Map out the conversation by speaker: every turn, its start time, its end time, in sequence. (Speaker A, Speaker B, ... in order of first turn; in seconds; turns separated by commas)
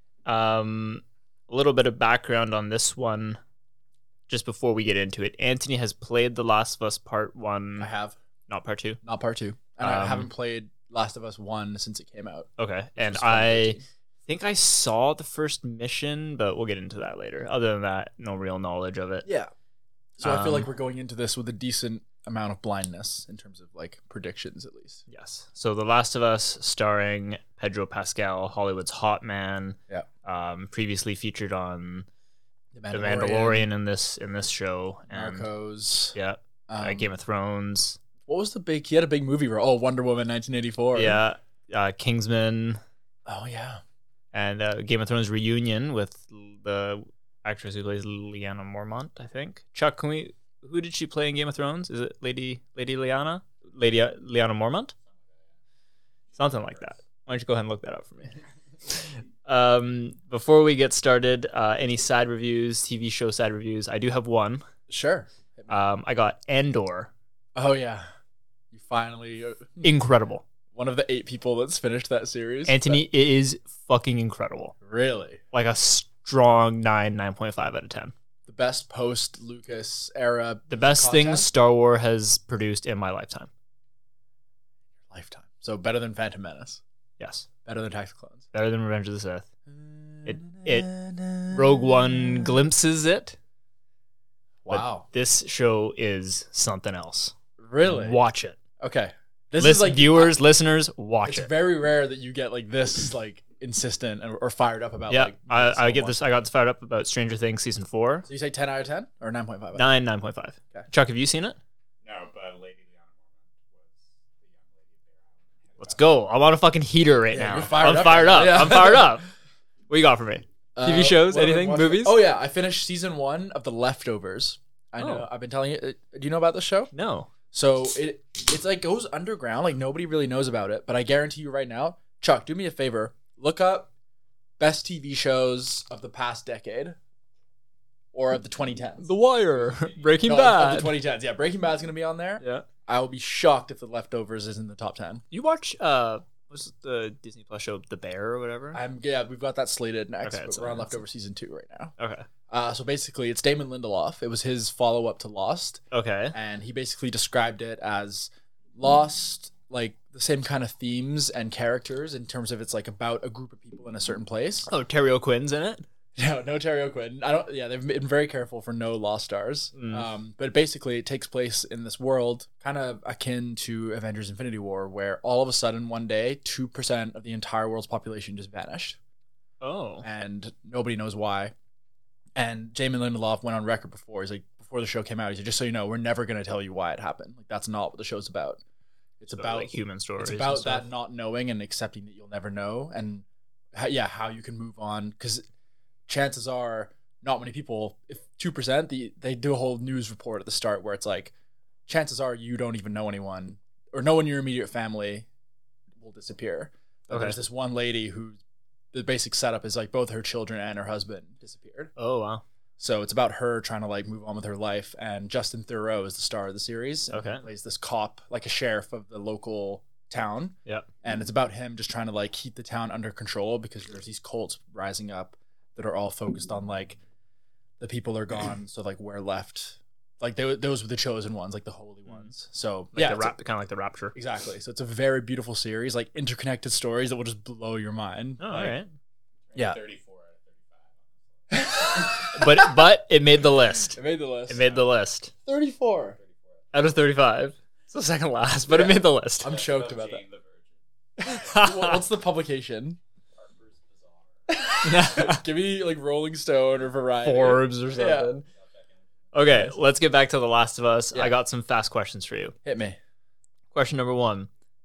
Speaker A: 0.3-3.4, Speaker A: 4.3-7.9, Speaker B: 7.8-8.2, Speaker A: 8.5-9.0, Speaker B: 9.0-13.8, Speaker A: 9.8-10.3, Speaker A: 12.6-19.3, Speaker B: 19.2-19.5, Speaker B: 20.2-25.0, Speaker A: 20.2-20.7, Speaker A: 25.1-32.1, Speaker B: 32.7-33.7, Speaker A: 32.9-35.5, Speaker B: 35.1-36.1, Speaker A: 36.1-38.0, Speaker B: 36.7-37.1, Speaker B: 38.3-41.2, Speaker A: 41.0-42.8, Speaker B: 43.3-43.8, Speaker A: 44.3-54.9, Speaker A: 56.4-64.7, Speaker B: 64.9-65.7, Speaker A: 65.7-67.1, Speaker B: 67.5-68.1, Speaker B: 68.7-69.9, Speaker A: 69.8-70.4, Speaker B: 70.7-73.0, Speaker A: 72.7-74.8, Speaker B: 74.8-75.4, Speaker A: 75.5-78.1, Speaker B: 78.5-81.5, Speaker A: 80.7-83.5, Speaker B: 85.1-86.8, Speaker A: 87.2-87.5, Speaker B: 87.7-88.5, Speaker A: 88.5-89.5, Speaker B: 89.7-92.5, Speaker A: 90.3-90.9, Speaker A: 91.5-93.4, Speaker B: 94.6-95.0, Speaker A: 94.7-98.6, Speaker B: 97.6-98.2, Speaker B: 98.8-100.4, Speaker A: 99.6-101.5, Speaker B: 101.2-106.2, Speaker A: 105.1-108.3, Speaker B: 108.2-109.9, Speaker A: 109.8-111.6, Speaker C: 112.0-116.1, Speaker A: 115.8-119.3, Speaker B: 117.3-119.2, Speaker A: 119.9-122.2, Speaker B: 120.8-126.9, Speaker A: 125.0-125.3, Speaker A: 126.9-127.3, Speaker B: 127.5-133.9, Speaker B: 134.6-137.0, Speaker B: 138.1-139.1, Speaker A: 139.0-140.9, Speaker B: 139.7-145.2, Speaker A: 145.3-148.8, Speaker B: 148.7-151.9, Speaker A: 150.2-150.9, Speaker A: 152.0-152.3, Speaker B: 152.5-155.8, Speaker A: 155.9-156.4, Speaker B: 156.3-164.7, Speaker A: 164.7-165.8, Speaker B: 166.2-179.0, Speaker A: 169.8-170.1, Speaker A: 179.6-180.1, Speaker B: 180.0-181.5, Speaker B: 182.4-188.6, Speaker B: 189.2-195.4, Speaker A: 189.3-190.9, Speaker B: 196.1-201.3, Speaker B: 201.9-205.3, Speaker B: 206.0-208.4, Speaker A: 207.1-207.4, Speaker B: 208.9-211.9, Speaker A: 212.0-212.4, Speaker B: 212.8-227.0, Speaker A: 217.1-217.4, Speaker B: 227.8-233.3, Speaker A: 232.1-232.3, Speaker A: 232.9-234.2, Speaker B: 234.2-238.8, Speaker A: 238.4-238.9, Speaker C: 239.5-241.6, Speaker B: 239.6-239.8, Speaker B: 241.5-242.7, Speaker A: 242.2-245.3, Speaker B: 243.9-244.7, Speaker B: 245.5-246.2, Speaker A: 246.7-249.5, Speaker B: 248.7-250.2, Speaker C: 249.4-250.7, Speaker B: 251.2-253.0, Speaker A: 251.2-252.0, Speaker C: 253.4-254.2, Speaker B: 254.5-258.3, Speaker A: 254.8-255.4, Speaker A: 257.2-258.5, Speaker A: 259.3-262.6, Speaker B: 259.5-259.7, Speaker B: 262.6-263.0, Speaker A: 263.7-264.5